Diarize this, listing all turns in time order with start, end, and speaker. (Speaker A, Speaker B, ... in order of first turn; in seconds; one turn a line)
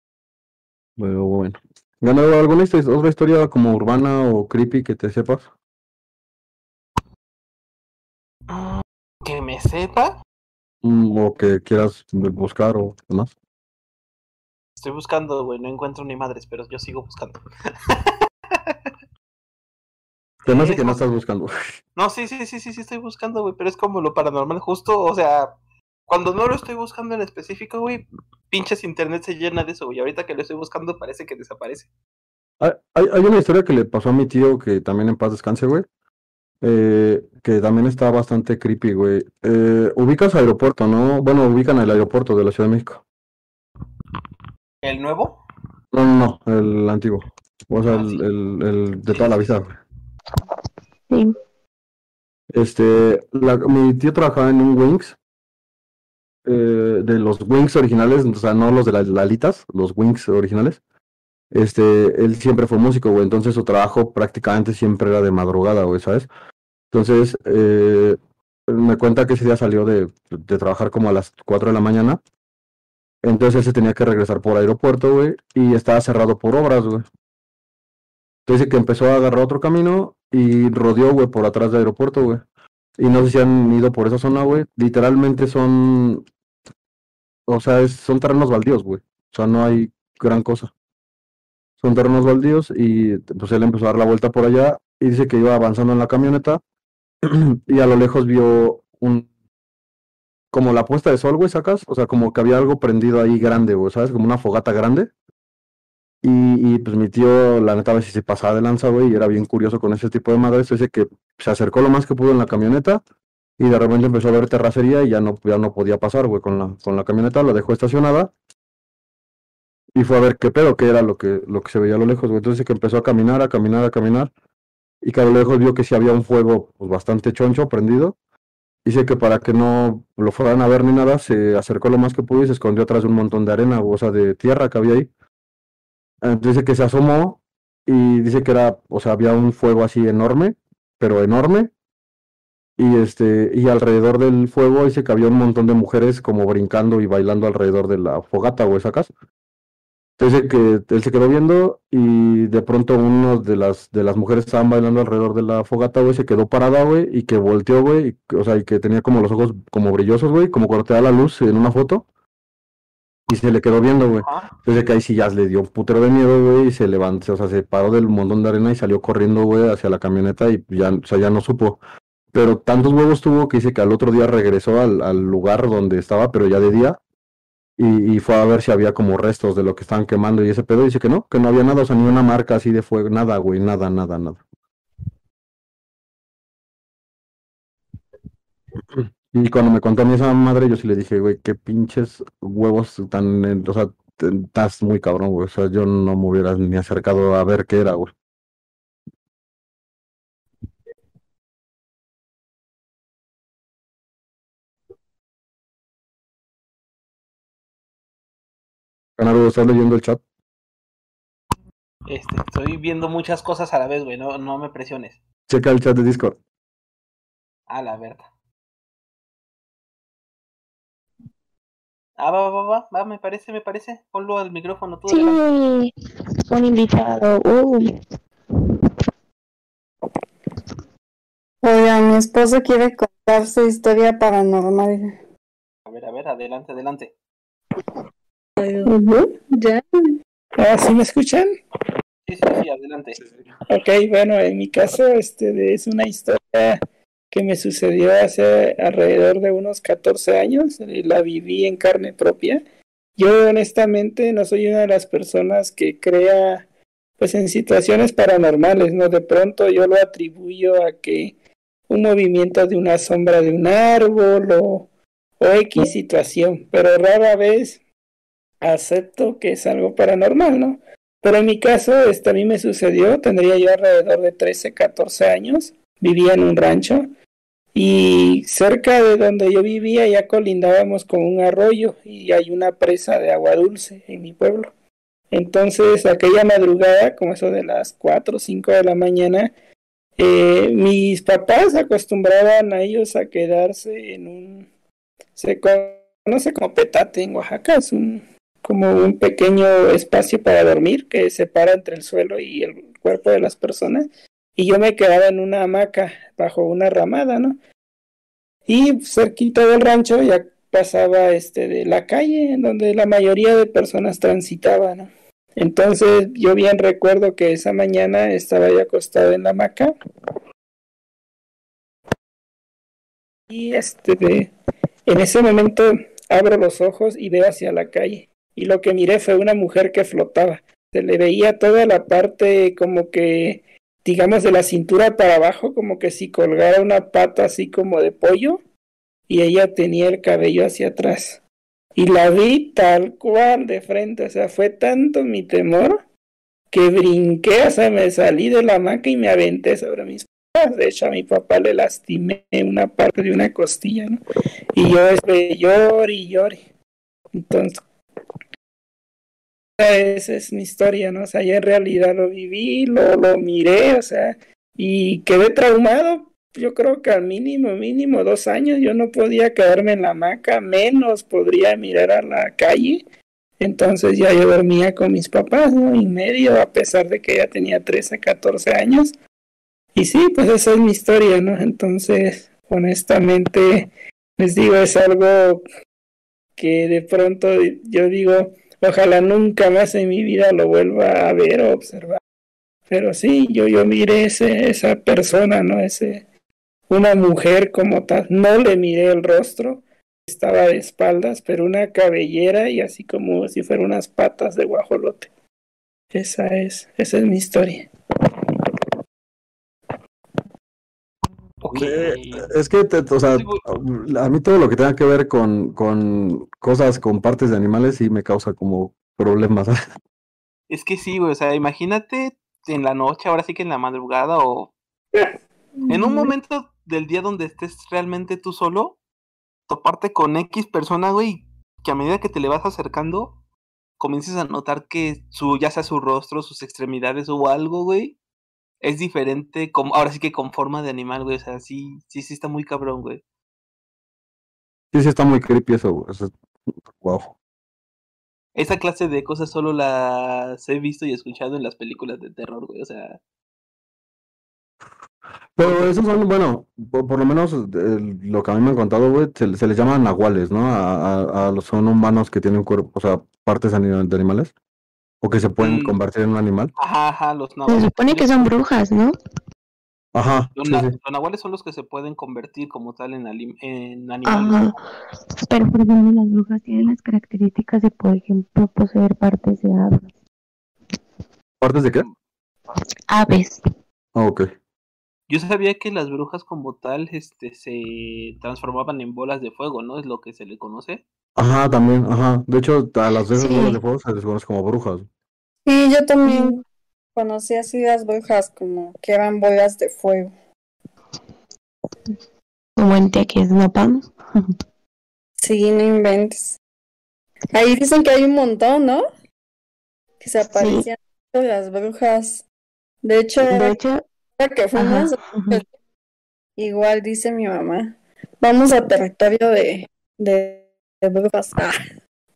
Speaker A: 1.0-5.5
Speaker B: 8.5-10.2
Speaker A: 10.8-13.3
Speaker B: 14.8-18.9
Speaker A: 20.4-21.5
Speaker B: 20.5-21.0
Speaker B: 22.0-25.5
Speaker B: 26.1-31.9
Speaker A: 32.6-35.9
Speaker A: 36.6-43.0
Speaker B: 44.8-45.4
Speaker A: 45.9-49.8
Speaker B: 47.9-48.2
Speaker B: 49.1-49.6
Speaker A: 52.5-55.2
Speaker A: 56.5-60.8
Speaker A: 61.5-66.3
Speaker A: 66.9-72.2
Speaker A: 73.2-77.0
Speaker A: 78.5-82.4
Speaker A: 83.0-86.3
Speaker A: 87.5-90.7
Speaker A: 91.8-96.6
Speaker A: 97.2-99.3
Speaker A: 100.5-105.1
Speaker A: 106.2-113.0
Speaker A: 113.6-118.3
Speaker A: 120.0-124.3
Speaker A: 125.0-128.2
Speaker A: 128.8-135.1
Speaker A: 136.2-141.7
Speaker A: 142.8-149.1
Speaker A: 150.2-162.1
Speaker A: 163.3-171.8
Speaker B: 164.2-164.5
Speaker A: 172.3-177.0
Speaker A: 177.8-184.4
Speaker A: 188.9-198.1
Speaker A: 209.2-210.2
Speaker B: 212.1-215.2
Speaker A: 215.5-216.4
Speaker B: 217.7-218.3
Speaker B: 222.2-225.4
Speaker C: 225.1-225.9
Speaker C: 226.5-227.9
Speaker D: 231.6-235.2
Speaker B: 235.9-237.1
Speaker D: 238.6-239.8
Speaker E: 240.6-241.5
Speaker B: 242.3-243.2
Speaker E: 243.7-246.8
Speaker E: 247.3-252.6
Speaker E: 253.2-256.7
Speaker E: 257.2-261.4
Speaker E: 261.9-264.9
Speaker E: 265.4-267.8
Speaker E: 268.6-277.1
Speaker E: 277.8-284.7
Speaker E: 285.3-289.5
Speaker E: 290.2-294.7
Speaker E: 295.4-307.6
Speaker E: 308.7-319.9
Speaker E: 323.5-324.5
Speaker E: 325.1-338.6
Speaker E: 339.3-341.4
Speaker E: 342.0-346.0
Speaker E: 346.7-354.2
Speaker E: 354.8-356.6
Speaker E: 357.3-357.8
Speaker E: 359.8-373.0
Speaker E: 373.6-379.1
Speaker E: 379.9-385.6
Speaker E: 386.6-392.2
Speaker E: 392.9-396.2
Speaker E: 396.9-405.3
Speaker E: 406.1-407.9
Speaker B: 411.6-412.5
Speaker A: 411.7-419.8
Speaker B: 413.4-413.6
Speaker B: 420.7-424.7
Speaker B: 425.9-429.0
Speaker B: 429.7-433.4
Speaker B: 434.0-438.2
Speaker B: 438.8-443.2
Speaker A: 444.9-446.3
Speaker A: 446.9-447.3
Speaker B: 448.6-453.2
Speaker A: 455.6-464.5
Speaker B: 455.6-455.9
Speaker A: 465.2-466.7
Speaker B: 465.6-465.9
Speaker B: 466.8-468.5
Speaker C: 467.7-469.1
Speaker A: 470.1-470.9
Speaker B: 470.6-474.8
Speaker C: 474.3-474.8
Speaker C: 475.4-480.1
Speaker A: 481.6-482.1
Speaker C: 483.1-483.6
Speaker A: 484.1-484.5
Speaker B: 485.3-491.0
Speaker A: 491.4-495.1
Speaker C: 493.3-493.8
Speaker D: 495.6-496.6
Speaker C: 496.2-496.6
Speaker D: 497.1-500.3
Speaker C: 502.8-504.5
Speaker D: 505.4-506.6
Speaker D: 507.5-509.0
Speaker D: 510.2-512.5
Speaker C: 510.5-510.9
Speaker D: 513.0-513.8
Speaker C: 513.4-514.0
Speaker D: 514.4-515.7
Speaker C: 514.8-515.6
Speaker D: 516.6-521.8